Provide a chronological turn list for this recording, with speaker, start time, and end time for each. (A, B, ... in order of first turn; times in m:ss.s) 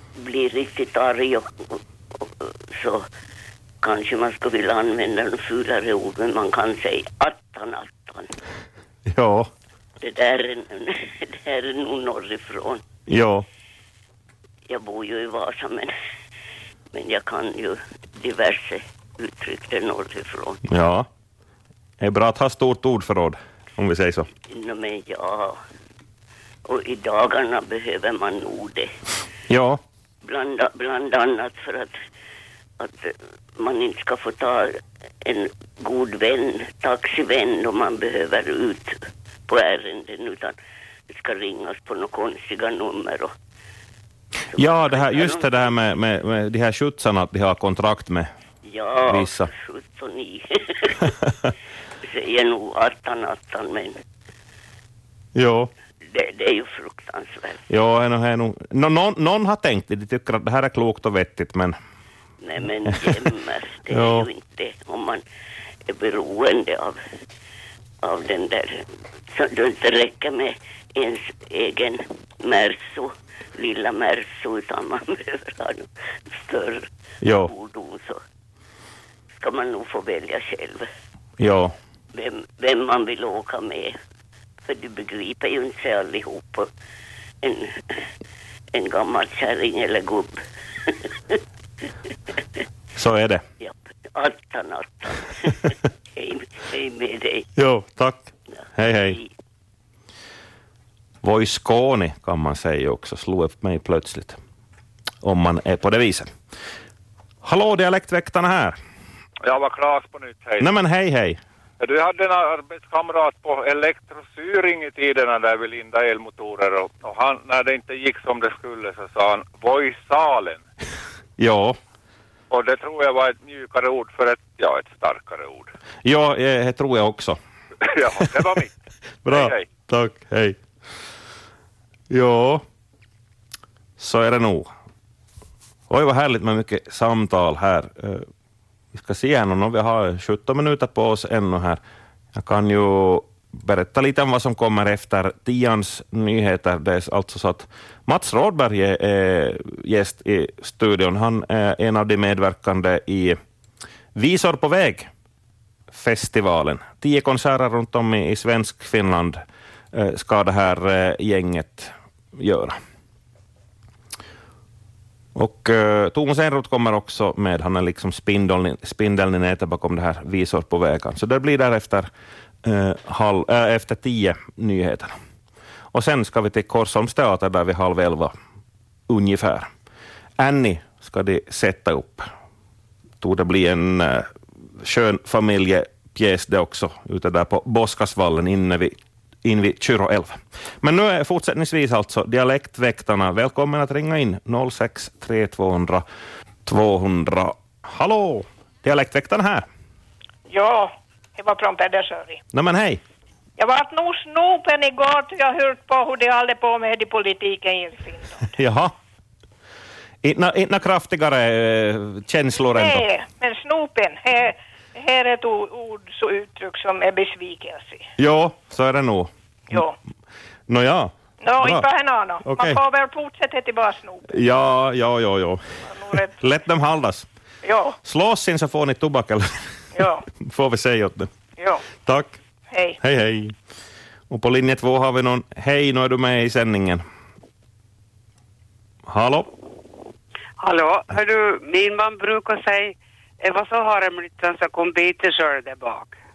0:00.2-0:03.1 A
0:03.8-0:08.3 A
0:09.1-0:09.5 B
0:10.0-0:12.8 A
0:13.1-0:13.4 B
0:14.7-0:15.9 A
0:16.9-0:20.6 A
0:20.7-0:21.1 B
0:22.0-0:24.3 B
0:24.5-0:25.6 A
0:26.7-0:29.0 A
0:29.5-0:29.8 B
0:30.2-0:32.0 A
0:32.8-0:40.6 A
0:41.1-0:43.3 A
0:44.5-0:45.7 A
0:44.6-0:48.3 B
0:48.6-0:51.1 A
0:49.1-0:49.5 B
0:52.0-0:54.0 A
0:55.4-0:55.7 B
0:56.1-0:57.6 A
0:57.7-1:01.8 B
1:02.4-1:05.2 A
1:02.9-1:03.2 B
1:03.9-1:04.3 B
1:05.9-1:07.0 A
1:08.0-1:16.9 A
1:17.2-1:17.5 B
1:17.5-1:18.2 A
1:19.4-1:20.9 A
1:21.4-1:21.8 B
1:22.1-1:24.0 A
1:24.6-1:26.7 A
1:27.4-1:28.1 A
1:28.7-1:31.4 A
1:33.0-1:33.4 B
1:33.6-1:37.5 A
1:37.6-1:39.2 B
1:39.0-1:39.3 A
1:41.2-1:44.4 B
1:45.2-1:46.3 B
1:47.4-1:48.8 B
1:49.4-1:50.7 C
1:50.6-1:51.4 B
1:51.8-2:00.6 C
2:01.4-2:01.8 B
2:02.5-2:05.7 C
2:06.0-2:07.4 B
2:07.8-2:08.7 C
2:09.2-2:10.6 B
2:09.3-2:09.7 C
2:12.1-2:12.6 B
2:14.0-2:14.7 B
2:15.9-2:18.3 B
2:18.9-2:21.8 B
2:22.3-2:33.4 B
2:34.2-2:35.1 B
2:35.9-2:39.4 B
2:39.9-2:42.8 B
2:45.4-2:52.1 B
2:52.6-2:55.1 B
2:55.9-2:58.4 B
2:59.1-2:59.7 B
3:00.4-3:02.3 B
3:03.2-3:16.0 B
3:16.7-3:19.7 B
3:20.5-3:22.4 D
3:22.5-3:23.0 B
3:23.6-3:28.5 D
3:28.6-3:28.9 B
3:30.2-3:33.0 B
3:32.7-3:38.1 D
3:38.2-3:39.8 B
3:39.7-3:40.0 D
3:40.7-3:41.9 B
3:41.4-3:44.3 D
3:42.4-3:42.8 B
3:44.3-3:45.6 B
3:45.8-3:46.4 D
3:46.4-3:47.3 B
3:47.6-3:48.0 D
3:48.0-3:49.5 B
3:49.9-3:50.3 D
3:50.4-3:51.3 B
3:51.6-3:51.8 D
3:52.0-3:52.4 B
3:52.7-3:53.0 D
3:53.0-3:53.5 B
3:54.3-3:57.0 B
3:59.1-3:59.5 B
4:00.6-4:06.1 E